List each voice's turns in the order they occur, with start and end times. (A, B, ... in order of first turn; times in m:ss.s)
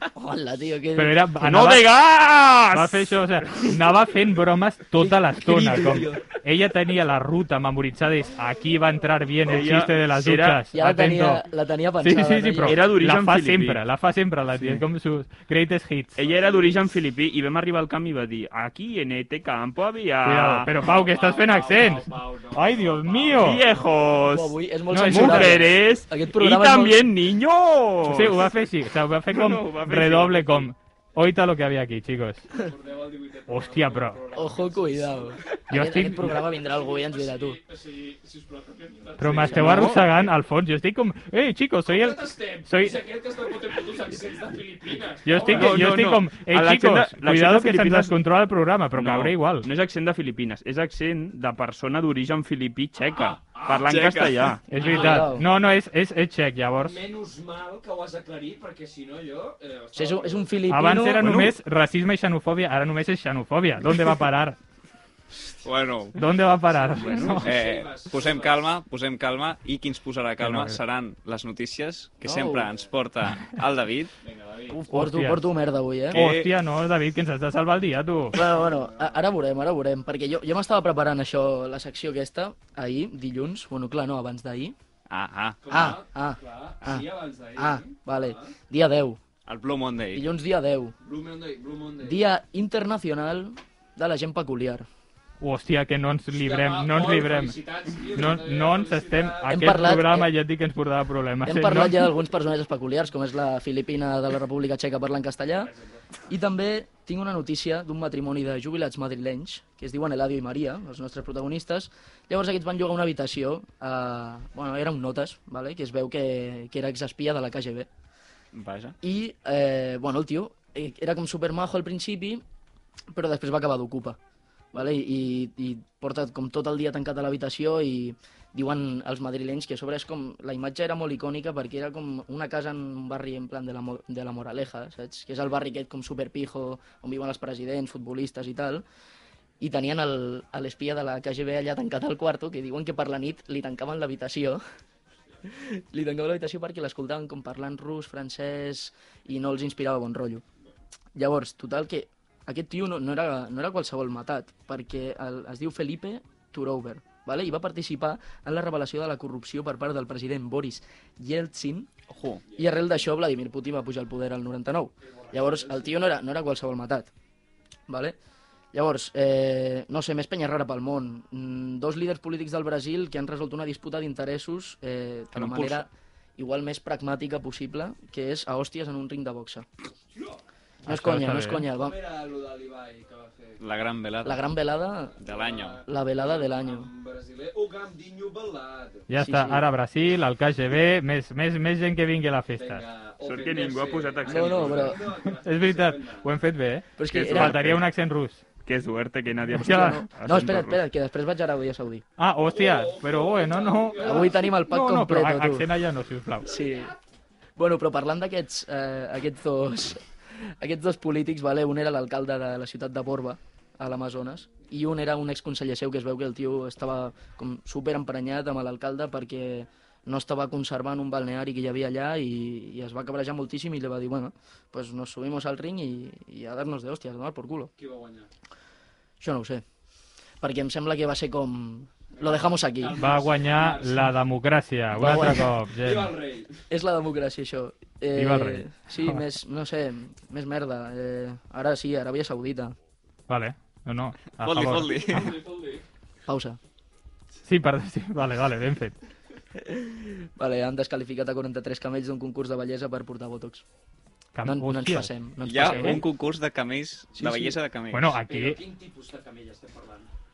0:00.1-0:01.3 A
0:01.0-0:02.0 B
0:01.4-0:03.8 C
0:02.7-0:11.4 B
0:05.0-0:06.2 A
0:05.5-0:06.3 C
0:09.4-0:10.6 C
0:10.7-0:12.8 A
0:12.0-0:16.2 B
0:12.6-0:13.8 C
0:16.2-0:20.7 C
0:16.2-0:16.7 D
0:20.2-0:23.6 B
0:20.7-0:23.8 D
0:23.3-0:28.6 C
0:24.1-0:27.1 A
0:24.9-0:25.7 B
0:28.0-0:32.5 B
0:29.2-0:30.7 C
0:32.5-0:35.6 D
0:33.5-0:34.2 B
0:34.4-0:37.6 A
0:35.7-0:36.4 B
0:36.2-0:40.3 D
0:39.2-0:43.0 B
0:39.5-0:40.0 A
0:39.5-0:40.0 C
0:41.8-0:46.0 D
0:45.2-0:49.7 B
0:45.4-0:48.2 C
0:48.9-0:54.7 C
0:53.0-0:54.2 D
0:53.9-0:54.5 E
0:54.7-0:57.0 B
0:54.7-0:55.5 D
0:54.7-0:55.4 A
0:56.8-1:00.6 D
0:59.9-1:01.5 A
1:00.7-1:04.6 B
1:01.2-1:01.6 C
1:05.6-1:06.3 E
1:06.2-1:07.6 B
1:06.7-1:08.7 D
1:06.9-1:07.4 C
1:07.4-1:14.1 E
1:10.4-1:10.8 B
1:12.2-1:12.7 A
1:14.2-1:14.8 D
1:14.7-1:16.2 A
1:14.9-1:15.4 B
1:16.1-1:18.4 B
1:16.1-1:16.5 E
1:18.3-1:24.7 A
1:18.4-1:19.2 D
1:25.1-1:25.9 E
1:25.6-1:28.5 D
1:25.7-1:29.2 A
1:29.4-1:30.2 E
1:30.1-1:30.9 A
1:31.0-1:32.2 D
1:32.0-1:34.9 A
1:35.4-1:42.1 B
1:36.3-1:40.0 D
1:39.5-1:40.3 A
1:41.4-1:45.7 A
1:45.6-1:46.0 D
1:46.3-1:57.9 A
1:58.5-1:59.0 E
1:59.0-2:02.4 A
2:03.1-2:04.2 A
2:04.7-2:18.8 A
2:19.6-2:24.6 A
2:25.4-2:30.4 A
2:31.1-2:41.9 A
2:42.1-2:42.4 E
2:42.4-2:42.8 D
2:42.6-2:47.1 A
2:45.0-2:46.1 D
2:47.9-2:48.2 A
2:48.7-2:59.6 A
2:55.3-2:55.9 E
3:00.1-3:00.4 D
3:00.8-3:01.7 B
3:00.9-3:01.9 A
3:01.7-3:03.6 D
3:03.6-3:04.5 E
3:04.2-3:05.1 A
3:05.1-3:09.1 D
3:05.2-3:05.8 E
3:05.9-3:06.9 A
3:09.1-3:12.8 B
3:09.1-3:09.7 A
3:12.6-3:16.3 D
3:13.2-3:15.0 C
3:14.2-3:15.1 A
3:15.2-3:18.4 B
3:17.0-3:17.6 A
3:17.0-3:17.9 C
3:18.6-3:20.8 C
3:19.6-3:20.1 B
3:19.6-3:22.0 A
3:22.2-3:26.5 B
3:22.4-3:24.5 D
3:24.0-3:25.7 A
3:26.4-3:26.9 A
3:26.5-3:26.9 D
3:27.6-3:47.7 A
3:47.8-3:48.3 D
3:49.2-3:49.6 A
3:50.4-3:53.0 A
3:52.1-3:54.1 D
3:53.0-3:56.1 B
3:55.0-3:55.5 A
3:55.1-3:56.6 D
3:56.7-4:02.7 A
3:58.1-3:59.2 B
4:03.3-4:05.2 B
4:04.4-4:05.4 E
4:04.7-4:05.8 D
4:06.3-4:06.6 A
4:07.4-4:09.0 B
4:09.6-4:13.6 A
4:14.3-4:16.0 B
4:14.4-4:16.1 A
4:15.4-4:18.2 E
4:17.1-4:17.6 A
4:17.9-4:18.6 B
4:18.3-4:20.1 D